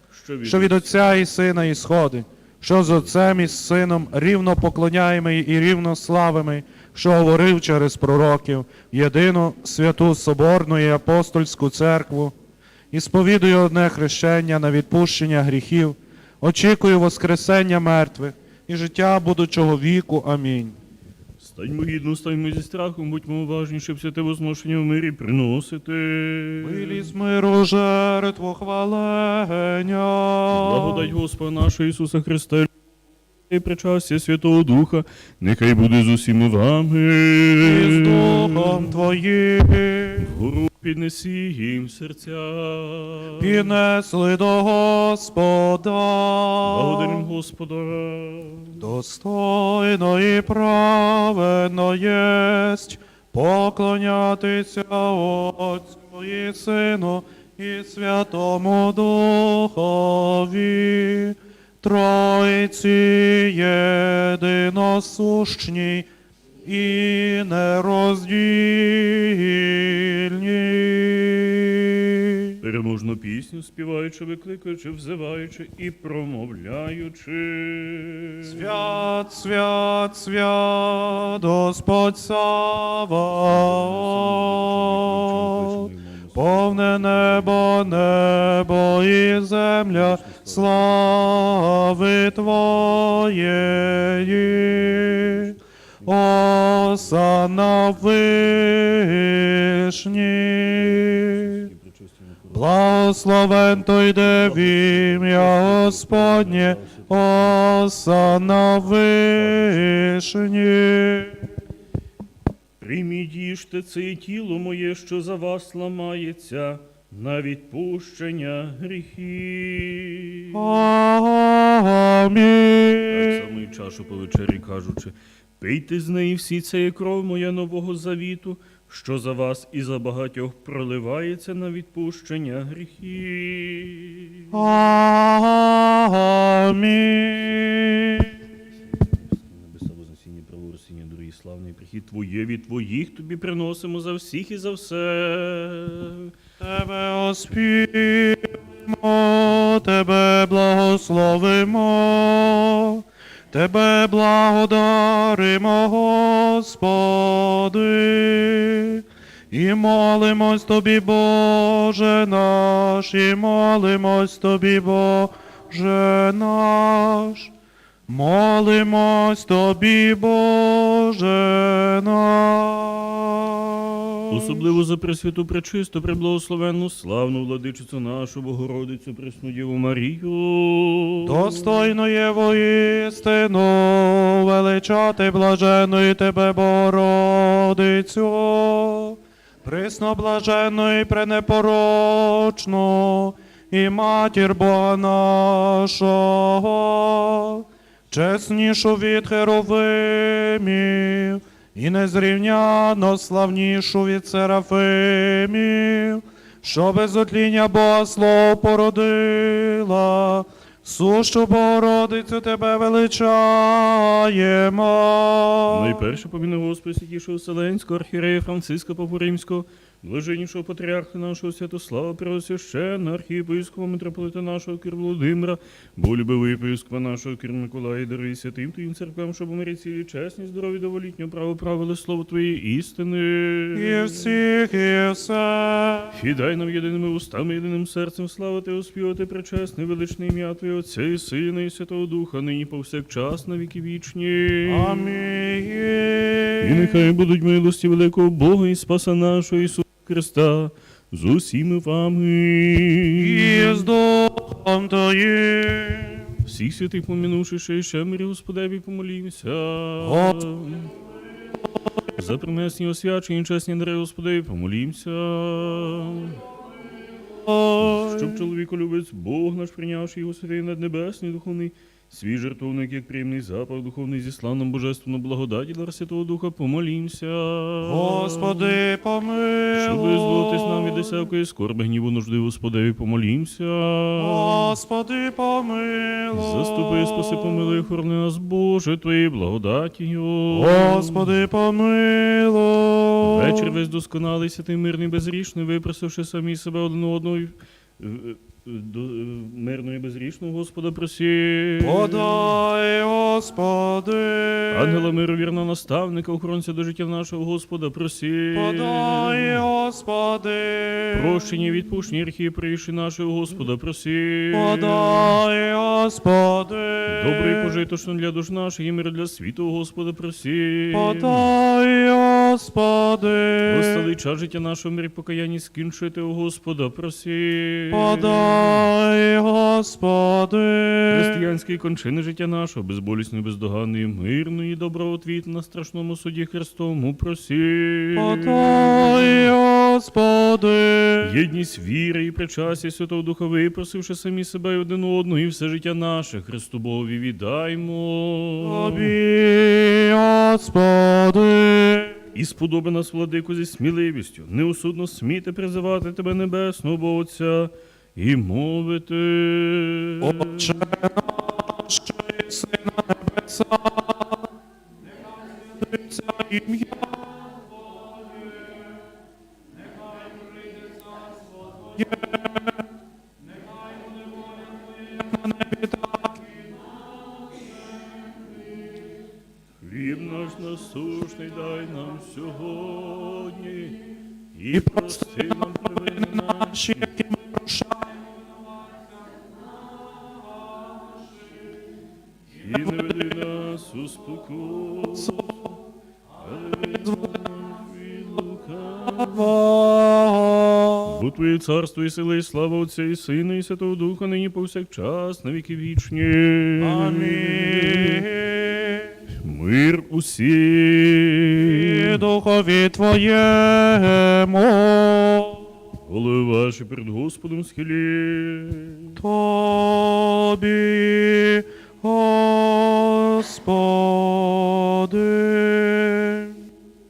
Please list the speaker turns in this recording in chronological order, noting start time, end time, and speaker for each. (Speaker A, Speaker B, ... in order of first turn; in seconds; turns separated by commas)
Speaker A: 0.1-1.2, Speaker B: 0.4-12.3, Speaker B: 12.9-20.8, Speaker A: 21.4-27.1, Speaker B: 26.6-31.1, Speaker A: 30.5-32.7, Speaker A: 33.5-39.0, Speaker B: 37.6-40.4, Speaker A: 40.2-43.7, Speaker B: 43.4-47.3, Speaker A: 46.6-48.8, Speaker B: 48.8-66.1, Speaker B: 66.6-72.6, Speaker A: 72.6-78.6, Speaker B: 78.4-101.7, Speaker A: 83.4-89.4, Speaker A: 89.9-92.0, Speaker A: 92.7-107.6, Speaker B: 102.5-111.5, Speaker A: 109.3-110.1, Speaker A: 112.8-120.6, Speaker B: 120.5-123.4, Speaker A: 123.1-134.6, Speaker B: 134.5-138.5, Speaker A: 138.9-146.3, Speaker B: 146.6-167.5, Speaker B: 168.1-174.6, Speaker A: 174.3-181.8, Speaker B: 181.2-216.0, Speaker A: 215.7-234.3, Speaker B: 233.7-236.1, Speaker A: 236.1-245.2, Speaker B: 244.7-247.1, Speaker A: 246.6-253.9, Speaker B: 253.1-256.4, Speaker A: 256.4-260.9, Speaker B: 260.0-260.6, Speaker A: 262.1-266.4, Speaker B: 267.4-268.4, Speaker A: 267.8-278.8, Speaker B: 277.8-281.2, Speaker A: 279.8-284.7, Speaker B: 284.2-287.8, Speaker A: 286.3-291.4, Speaker B: 290.5-293.7, Speaker A: 293.2-302.6, Speaker B: 301.8-305.1, Speaker A: 304.7-309.6, Speaker B: 308.5-311.4, Speaker A: 311.1-315.4, Speaker B: 314.5-317.8, Speaker A: 317.1-321.5, Speaker B: 320.9-324.1, Speaker A: 323.6-328.9, Speaker B: 327.9-331.4, Speaker A: 331.1-339.5, Speaker B: 338.1-341.3, Speaker A: 341.2-349.1, Speaker B: 348.6-352.2, Speaker A: 352.3-360.9, Speaker B: 360.2-364.4, Speaker B: 365.2-368.8, Speaker B: 369.9-372.8, Speaker B: 373.5-376.7, Speaker A: 379.8-384.0, Speaker A: 384.5-387.1, Speaker B: 384.7-388.4, Speaker B: 390.2-391.2, Speaker A: 392.6-395.8, Speaker B: 392.6-393.4, Speaker A: 396.4-399.6, Speaker B: 396.7-397.4, Speaker B: 399.1-401.2, Speaker A: 401.0-408.2, Speaker B: 406.8-409.1, Speaker A: 409.4-412.2, Speaker B: 411.6-415.7, Speaker A: 416.0-419.2, Speaker B: 419.1-426.6